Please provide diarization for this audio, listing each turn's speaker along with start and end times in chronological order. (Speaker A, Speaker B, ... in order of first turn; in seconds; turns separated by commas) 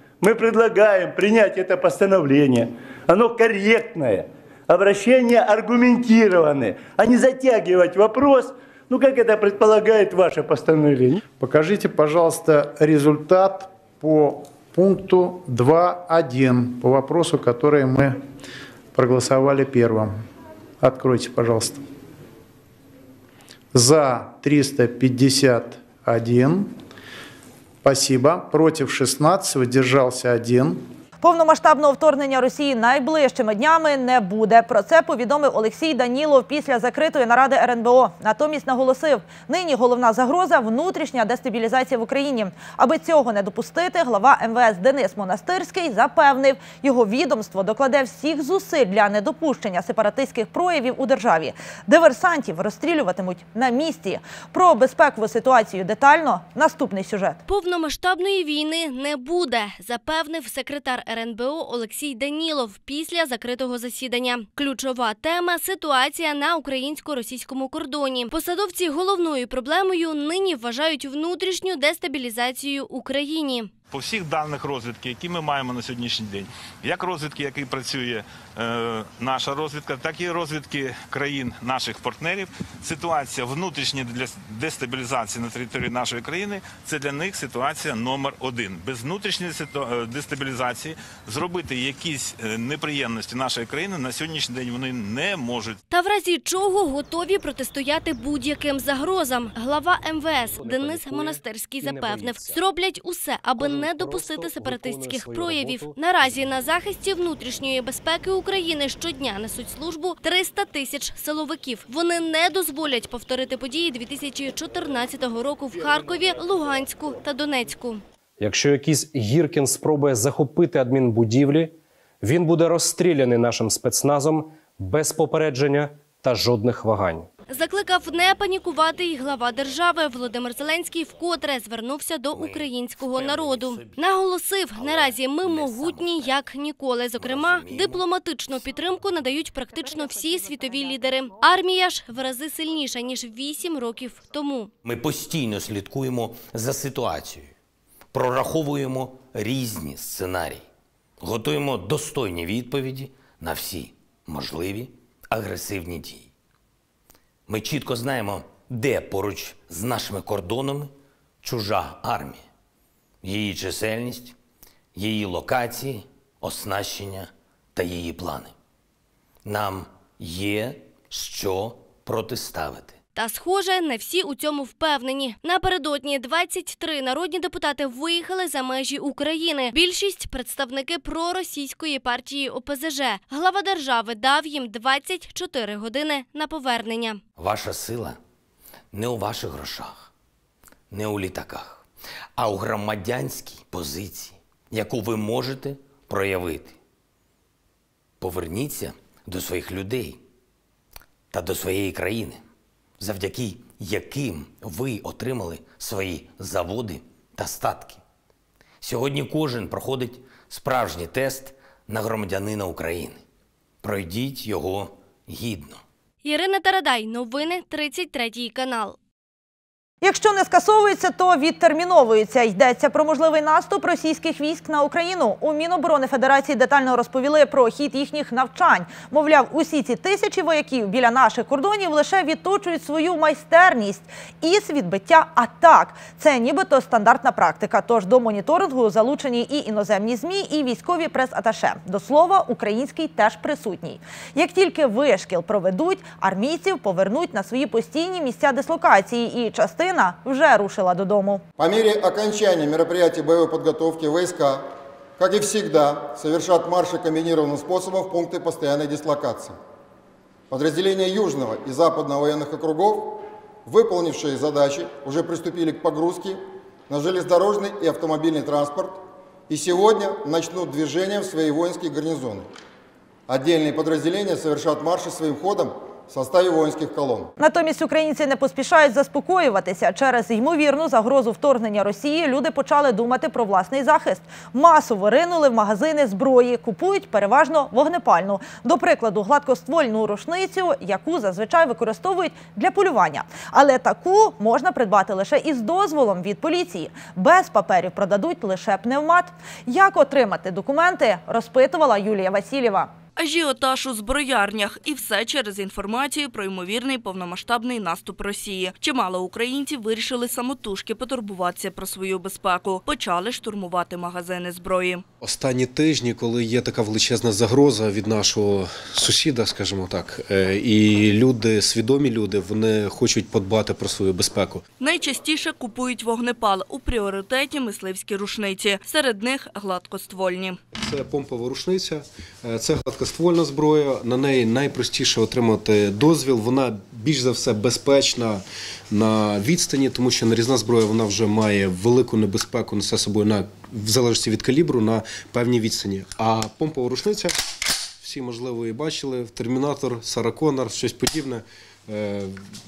Speaker A: 0.2-11.2, Speaker B: 11.4-18.2, Speaker B: 18.9-20.1, Speaker B: 20.8-21.8, Speaker B: 23.7-26.7, Speaker B: 27.8-30.8, Speaker C: 31.2-57.4, Speaker D: 57.5-73.7, Speaker E: 73.9-95.8, Speaker D: 95.9-100.2, Speaker F: 99.8-102.9, Speaker G: 100.3-102.7, Speaker D: 101.4-101.8, Speaker D: 102.6-103.7, Speaker G: 103.6-106.4, Speaker F: 103.6-106.7, Speaker D: 105.7-118.0, Speaker G: 118.4-121.7, Speaker G: 122.2-127.3, Speaker D: 127.5-144.7, Speaker F: 132.3-134.1, Speaker F: 134.6-136.4, Speaker F: 137.1-138.7, Speaker F: 144.9-147.5, Speaker F: 148.1-150.6, Speaker F: 151.2-151.7, Speaker D: 151.9-152.2, Speaker F: 153.4-153.7, Speaker F: 154.3-154.7, Speaker F: 155.3-156.2, Speaker F: 157.5-158.3, Speaker F: 158.8-160.6, Speaker D: 163.7-164.2, Speaker D: 165.5-165.7, Speaker D: 173.2-187.2, Speaker F: 187.4-187.7, Speaker F: 188.9-189.9, Speaker F: 190.9-191.9, Speaker F: 192.4-196.7, Speaker F: 198.2-199.6, Speaker D: 199.7-200.1, Speaker F: 201.3-202.4, Speaker F: 203.0-203.5, Speaker D: 203.9-204.2, Speaker F: 204.7-205.2, Speaker D: 205.2-205.6, Speaker D: 206.3-206.8, Speaker F: 207.4-208.0, Speaker F: 208.8-213.2, Speaker D: 216.4-218.9, Speaker C: 220.0-251.4, Speaker H: 251.6-259.6, Speaker H: 260.5-272.5, Speaker H: 273.3-277.3, Speaker C: 277.4-302.9, Speaker I: 303.2-315.0, Speaker J: 315.2-324.6, Speaker I: 324.8-330.6, Speaker J: 330.8-347.3, Speaker J: 348.0-352.4